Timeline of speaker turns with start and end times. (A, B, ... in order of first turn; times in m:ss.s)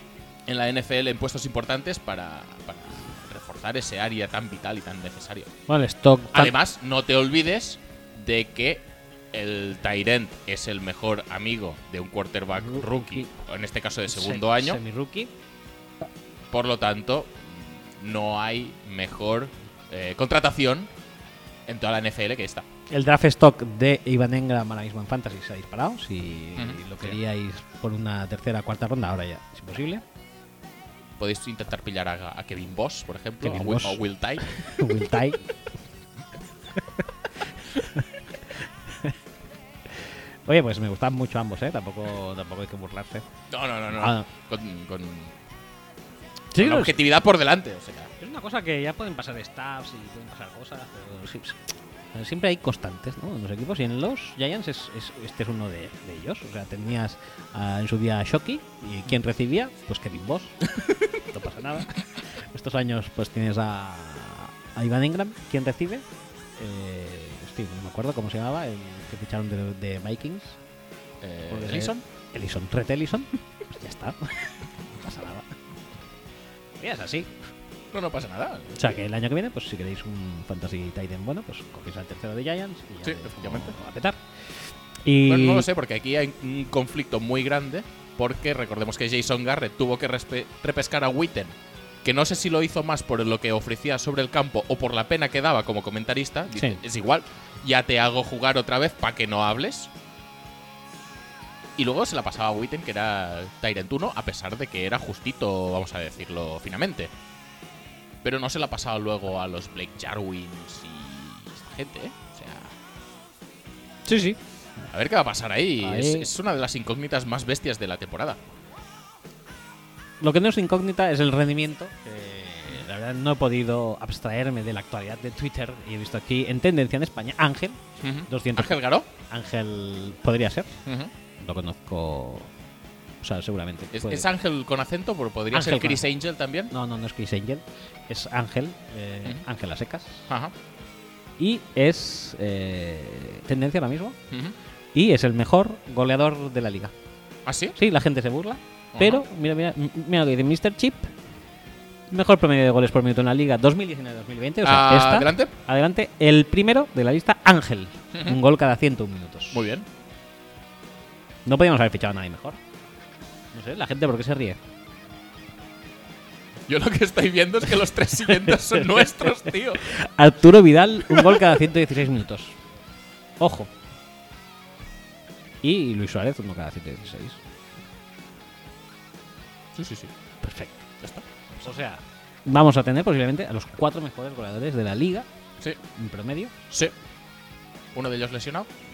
0:00.5-0:05.5 A
0:05.7-0:06.6 B
0:06.3-0:14.8 A
0:12.6-0:13.3 B
0:14.1-0:15.3 B
0:16.5-0:20.9 A
0:21.7-0:22.6 A
0:22.9-0:30.0 B
0:26.6-0:27.2 A
0:31.2-0:34.7 A
0:33.4-0:35.4 B
0:37.7-0:38.1 B
0:38.9-0:39.1 B
0:39.9-0:43.3 B
0:43.5-0:45.4 A
0:43.9-0:44.3 B
0:46.5-0:47.0 B
0:46.6-0:48.1 A
0:48.2-1:00.6 B
1:01.2-1:06.0 B
1:06.6-1:10.6 B
1:11.2-1:12.0 A
1:11.5-1:15.6 B
1:16.8-1:17.3 B
1:17.9-1:19.0 A
1:18.7-1:25.7 B
1:23.0-1:23.8 A
1:25.2-1:39.9 A
1:36.5-1:36.8 B
1:41.8-1:47.1 A
1:48.2-1:52.7 A
1:54.1-1:54.4 B
1:54.9-1:58.4 A
1:55.8-1:56.3 B
2:00.2-2:10.8 B
2:08.0-2:09.1 A
2:10.9-2:11.1 A
2:11.4-2:12.5 B
2:13.2-2:14.3 B
2:13.9-2:16.7 A
2:15.5-2:16.0 B
2:16.7-2:20.3 B
2:20.3-2:20.6 A
2:21.4-2:24.2 B
2:24.3-2:24.6 A
2:24.9-2:26.9 B
2:27.4-2:27.8 A
2:27.8-2:31.1 B
2:28.9-2:29.2 A
2:32.1-2:39.7 B
2:34.6-2:35.5 A
2:38.1-2:38.4 A
2:39.5-2:39.9 A
2:41.4-2:42.6 B
2:43.5-2:44.6 B
2:46.7-2:49.8 A
2:48.5-2:52.6 B
2:51.1-2:51.5 A
2:53.4-2:53.7 B
2:55.6-2:57.4 B
2:59.7-3:00.1 A
3:00.4-3:00.9 B
3:01.0-3:01.4 A
3:01.6-3:05.3 B
3:05.9-3:06.5 B
3:06.7-3:06.9 A
3:07.9-3:08.7 A